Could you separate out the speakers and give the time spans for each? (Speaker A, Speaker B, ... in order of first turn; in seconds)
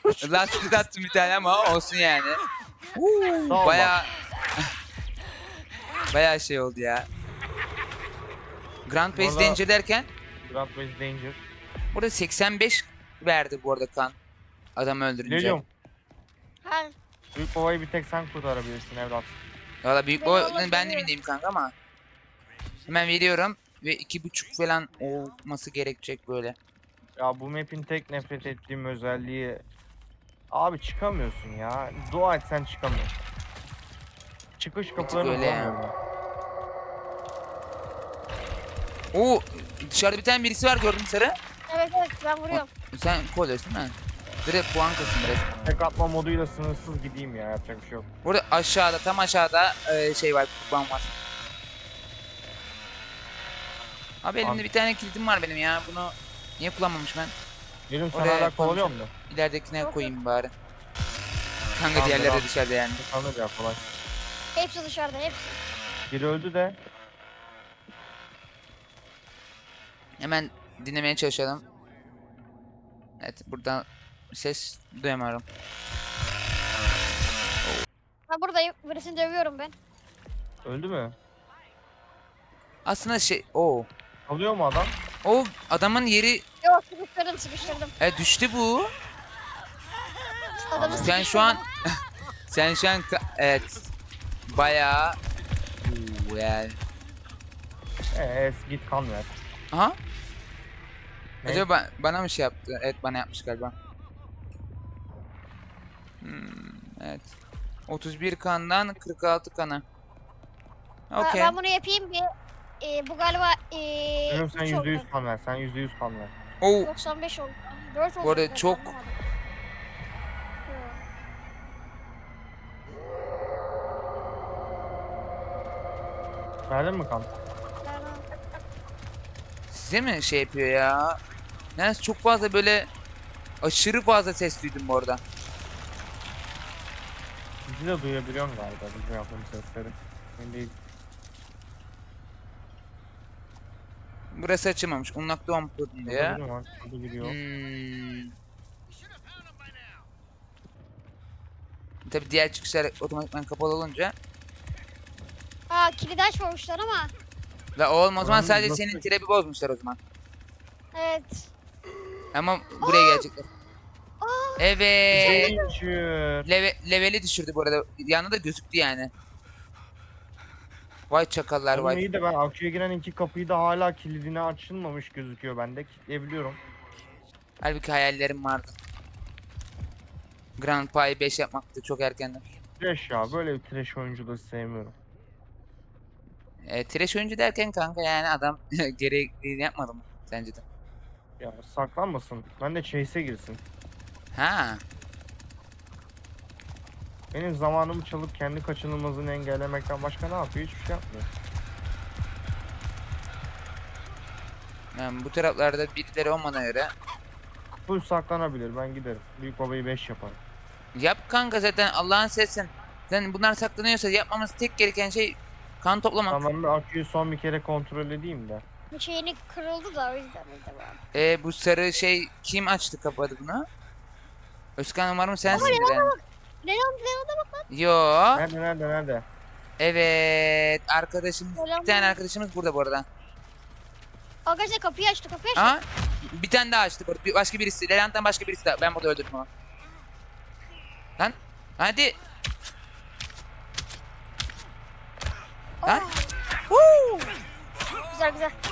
Speaker A: 0.2-2.4, 3.0-4.7, 6.1-7.1, 8.9-10.1, 11.9-14.2, 14.8-15.6, 19.8-21.7, 22.9-26.6, 35.0-35.8, 39.1-41.4, 42.5-44.0, 44.5-45.6, 48.2-51.1, 54.2-57.3, 58.1-60.5, 61.8-63.0, 70.2-71.6, 73.2-75.4, 82.8-83.9, 85.2-86.4, 88.0-88.9, 90.8-93.9, 94.5-95.2, 95.8-96.8, 99.7-100.0, 101.5-103.7, 106.2-107.3, 107.9-109.8, 111.1-111.5, 116.6-116.9, 118.2-118.9, 129.7-131.2, 131.8-132.9, 133.6-135.2, 144.3-146.4, 147.2-148.3, 152.1-154.2, 157.8-160.0, 162.3-163.5, 164.6-165.5, 166.5-169.1, 171.1-172.0, 177.6-178.8, 180.6-182.4, 186.6-190.6, 194.3-194.8, 204.9-206.9, 211.0-216.4, 221.1-223.7, 224.8-226.1, 227.7-228.4, 229.8-233.1, 235.6-239.5, 241.2-242.2, 246.7-247.3
Speaker B: 3.5-4.0, 9.1-9.6, 10.4-11.4, 15.2-15.7, 17.4-19.4, 27.2-29.6, 30.5-33.1, 34.6-35.9, 45.6-48.1, 57.9-59.1, 61.9-63.8, 66.1-66.8, 80.6-81.2, 84.3-84.9, 90.8-91.2, 98.1-99.3, 114.3-116.3, 126.7-127.3, 137.7-140.8, 146.1-147.4, 158.2-159.1, 165.1-166.5, 171.7-176.6, 182.8-185.0, 191.4-193.6, 197.3-201.3, 207.9-210.4, 216.3-218.6, 225.5-225.8, 228.3-229.3
Speaker C: 16.6-16.9, 20.2-21.1, 41.7-42.7, 59.8-60.1, 64.6-65.6, 78.3-79.8, 86.6-87.9, 90.6-91.6, 111.2-112.3, 112.8-115.0, 116.8-119.2, 120.7-121.0, 127.8-128.2, 155.7-157.1, 160.9-161.5, 162.8-163.3, 164.2-165.7, 218.9-221.0, 225.5-227.7, 231.6-232.2, 234.5-235.8, 245.8-246.3, 248.1-248.6